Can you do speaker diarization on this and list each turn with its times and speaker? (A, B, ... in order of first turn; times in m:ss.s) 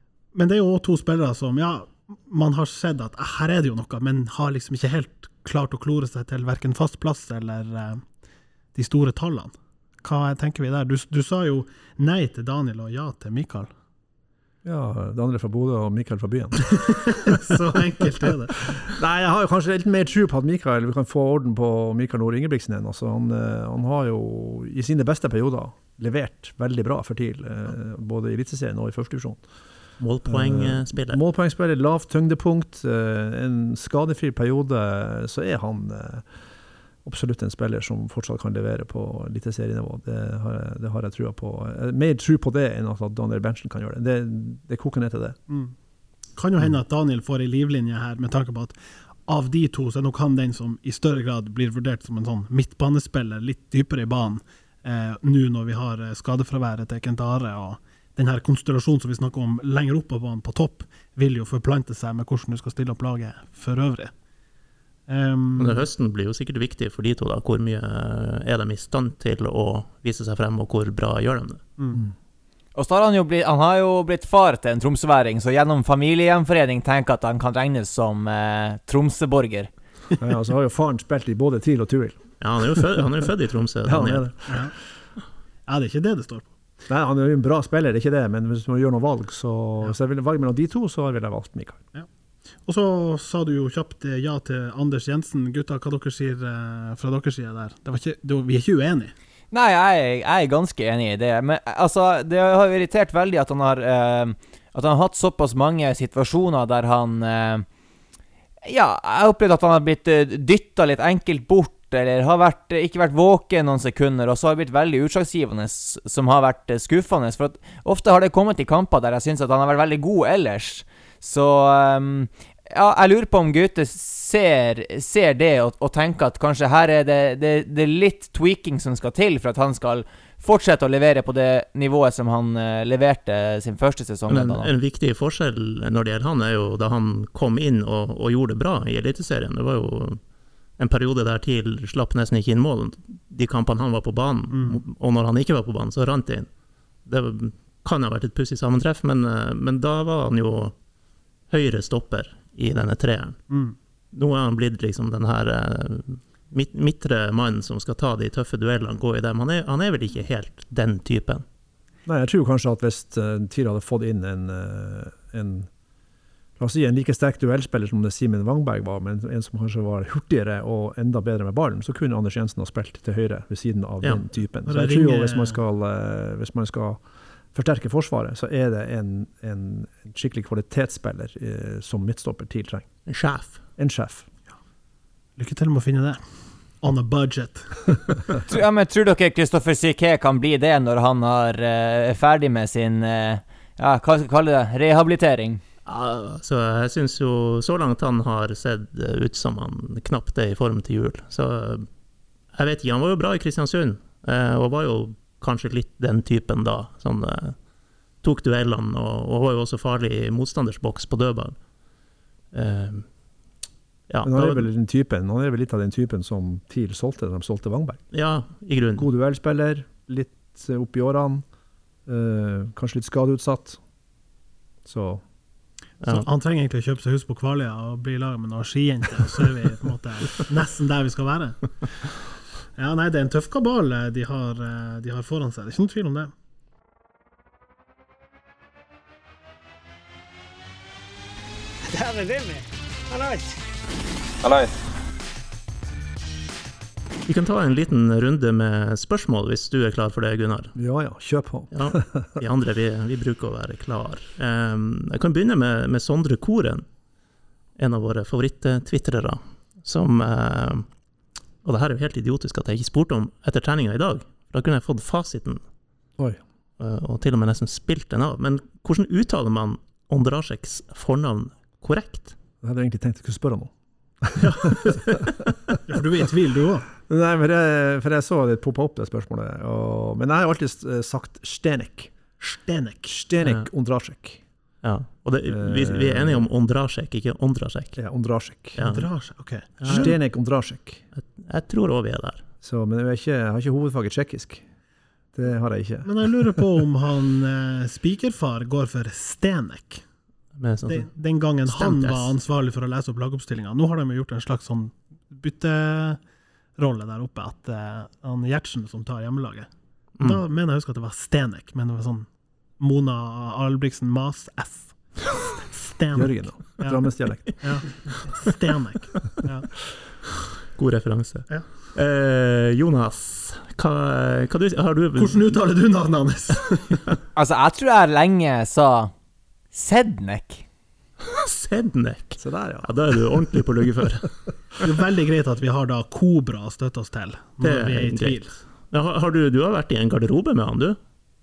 0:00.3-0:08.0 A
0:08.8-0:13.7 A
0:14.6-0:16.7 B
0:16.7-0:18.9 A
0:18.7-0:29.4 B
0:30.0-0:31.2 C
0:30.3-0:36.3 B
0:37.0-0:45.4 B
0:46.4-0:48.8 A
0:49.3-1:04.1 A
1:05.1-1:05.8 A
1:05.6-1:11.6 C
1:12.8-1:19.7 D
1:20.2-1:22.4 B
1:22.4-1:24.3 C
1:23.8-1:24.7 B
1:25.7-1:26.5 A
1:26.9-1:31.8 B
1:32.6-1:39.1 A
1:39.5-1:47.7 D
1:48.6-2:14.7 D
2:14.3-2:20.2 C
2:20.8-2:26.5 C
2:24.5-2:24.8 A
2:27.0-2:30.8 C
2:31.5-2:33.4 C
2:33.5-2:33.8 A
2:34.1-2:41.4 C
2:42.1-2:45.7 B
2:46.6-3:02.9 B
2:54.7-2:55.6 A
3:03.1-3:03.6 C
3:03.8-3:04.3 B
3:05.4-3:06.2 A
3:06.8-3:08.3 A
3:08.5-3:15.6 D
3:15.9-3:21.9 C
3:22.5-3:27.6 C
3:28.2-3:31.6 C
3:32.5-3:33.1 C
3:34.1-3:34.7 C
3:34.2-3:38.0 B
3:38.1-3:39.1 C
3:39.0-3:41.4 B
3:42.1-3:43.8 B
3:44.8-3:45.2 B
3:46.0-3:46.3 C
3:46.1-3:52.1 A
3:52.8-3:56.3 A
4:01.9-4:03.6 E
4:04.4-4:04.7 E
4:07.3-4:10.8 C
4:10.8-4:12.4 B
4:11.7-4:16.8 C
4:17.8-4:20.9 C
4:21.6-4:25.6 C
4:26.8-4:32.4 C
4:32.6-4:35.8 B
4:34.4-4:35.4 C
4:35.9-4:36.9 A
4:37.1-4:42.1 B
4:42.4-4:43.2 A
4:43.1-4:44.4 B
4:44.8-4:48.0 C
4:45.5-4:46.5 B
4:48.0-4:48.9 B
4:48.8-4:49.1 C
4:48.8-4:50.0 A
4:49.7-4:50.2 C
4:49.8-4:51.0 B
4:51.2-4:52.4 C
4:52.6-4:54.6 B
4:55.3-4:56.3 B
4:56.0-5:00.0 A
5:00.6-5:01.1 C
5:00.9-5:06.2 A
5:01.7-5:02.3 C
5:06.8-5:12.3 A
5:12.8-5:19.7 A
5:16.2-5:17.6 B
5:20.8-5:25.7 C
5:25.2-5:27.0 A
5:27.4-5:29.1 D
5:29.7-5:30.6 D
5:31.2-5:34.3 C
5:32.4-5:32.9 B
5:34.8-5:38.6 A
5:37.6-5:41.0 C